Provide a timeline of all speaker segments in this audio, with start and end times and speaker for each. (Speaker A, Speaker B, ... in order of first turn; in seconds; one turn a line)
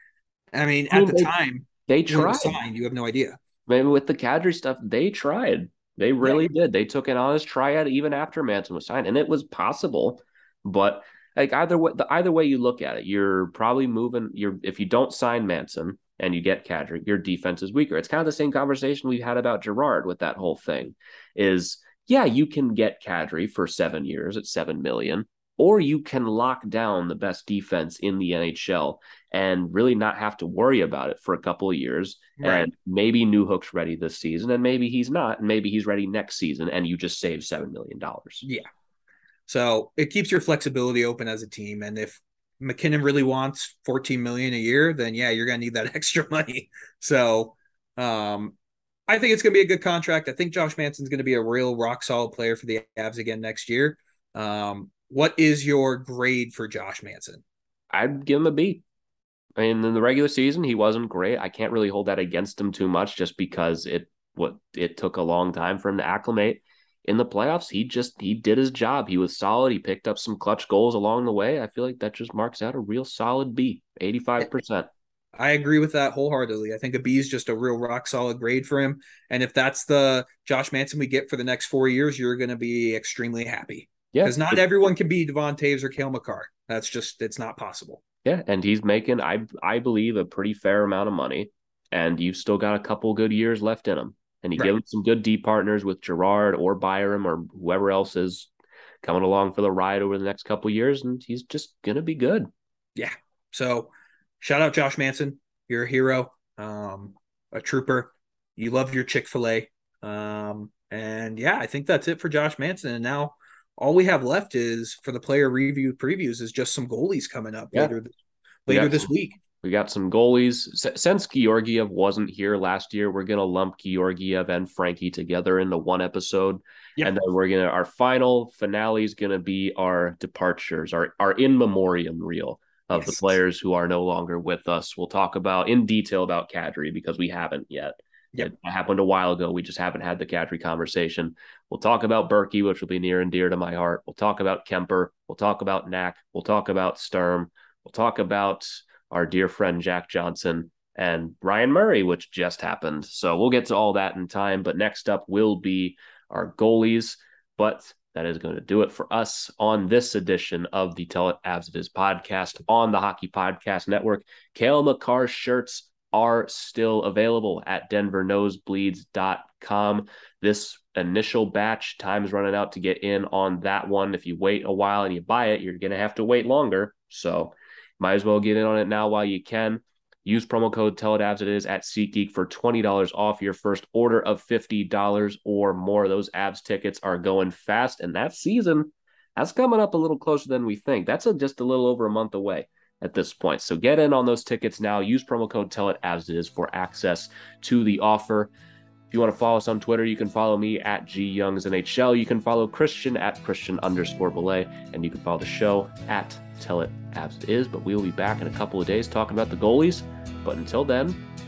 Speaker A: 0.5-3.4
Speaker B: 0.9-1.3
Speaker B: 1.9-2.6
Speaker B: 3.7-38.5
Speaker A: 6.2-6.5
Speaker A: 32.4-32.7
Speaker A: 39.5-48.5
Speaker A: 49.1-57.4
Speaker B: 57.9-58.8
Speaker B: 59.6-74.9
Speaker A: 75.3-88.0
Speaker B: 84.1-84.6
Speaker B: 88.2-98.5
Speaker B: 99.0-102.5
Speaker A: 102.9-118.1
Speaker A: 118.7-119.4
Speaker B: 118.7-119.1
Speaker B: 119.6-198.5
Speaker A: 132.9-133.3
Speaker B: 199.1-211.2